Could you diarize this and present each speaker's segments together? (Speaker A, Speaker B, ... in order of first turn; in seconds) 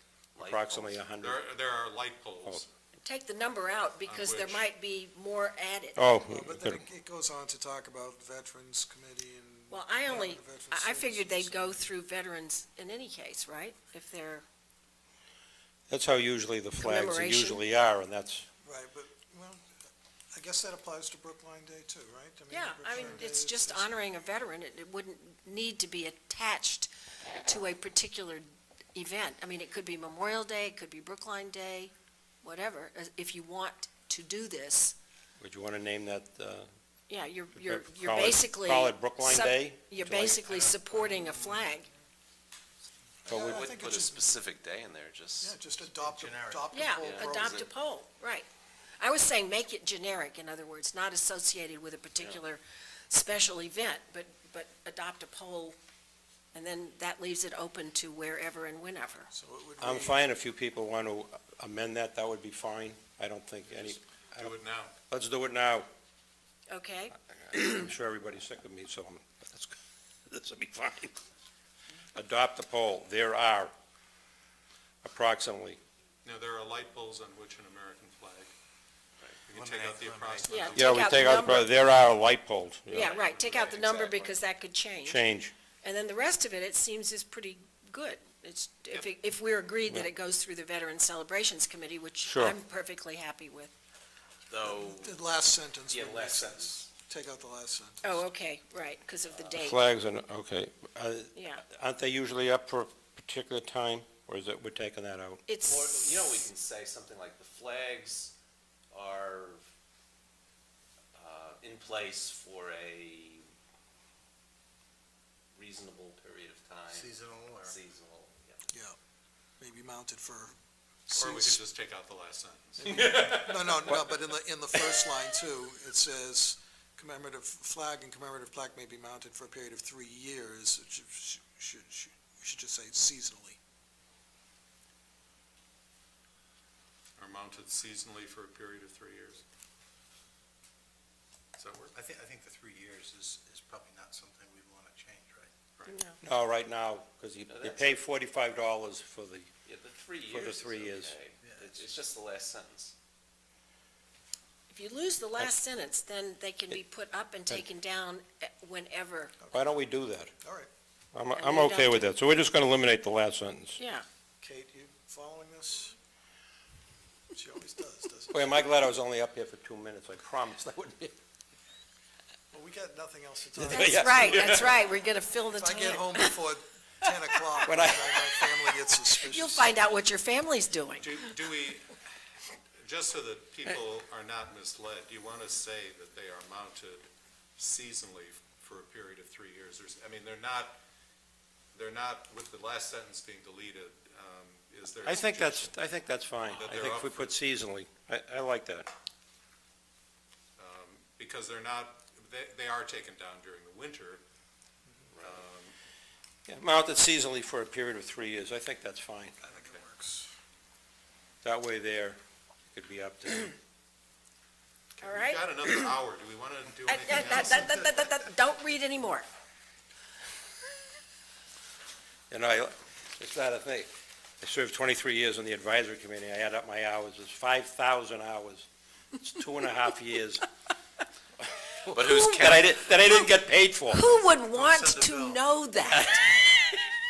Speaker A: 0.4-1.0, 43.3-45.6, 47.0-47.7, 83.0-84.3, 94.5-95.2, 95.9-96.9, 99.3-99.6, 105.7-108.3, 108.9-109.6, 111.2-113.4, 115.5-118.7, 122.8-124.0, 147.5-148.0, 149.7-152.9, 205.1-205.4, 231.9-232.8
Speaker B: 0.4-1.4, 6.0-6.8, 15.9-18.5, 35.4-36.7, 37.5-40.8, 43.3-43.7, 59.8-64.5, 65.1-65.9, 67.5-71.2, 72.2-73.7, 75.0-75.8, 80.8-83.2, 85.0-85.5, 92.2-92.6, 99.6-105.4, 146.2-149.5, 150.3-151.2, 159.5-160.3, 161.1-163.8, 168.3-171.2, 173.6-174.8, 177.7-178.2, 195.0-198.9, 206.5-209.4, 211.4-212.2, 212.7-213.6, 222.3-223.9, 224.4-230.5, 231.6-234.1
Speaker C: 1.2-2.7, 4.0-4.7, 64.4-65.0, 76.2-78.5, 79.5-81.3, 83.3-83.9, 121.1-122.9, 137.2-139.4, 141.6-142.0, 181.0-181.9, 182.8-190.8, 191.7-195.8, 196.5-197.4, 200.6-204.2, 205.2-205.8, 215.0-217.9, 234.8-235.1
Speaker D: 3.0-6.1, 9.7-14.4, 16.8-17.6, 22.5-26.9, 27.4-35.0, 37.1-41.9, 46.7-48.5, 49.0-55.8, 56.5-59.3, 66.7-67.9, 80.5-81.7, 83.0-85.2, 85.8-93.7, 98.0-99.8, 101.3-101.7, 105.5-106.1, 145.9-146.2, 154.7-159.4, 161.4-162.1, 163.8-164.1, 173.6-176.4, 179.1-181.4, 215.0-216.0, 216.9-219.3, 233.9-236.9
Speaker E: 6.3-11.9, 18.6-19.7, 20.3-24.0, 43.2-44.3, 45.4-47.7, 59.3-60.2, 94.6-98.2, 118.7-119.0, 119.6-120.5, 121.1-121.6, 122.8-133.6, 160.4-160.7, 164.4-165.9, 167.3-168.5, 172.5-174.8, 175.5-179.7, 209.4-210.3
Speaker F: 46.0-47.1, 79.5-81.0, 116.9-117.8, 141.9-145.5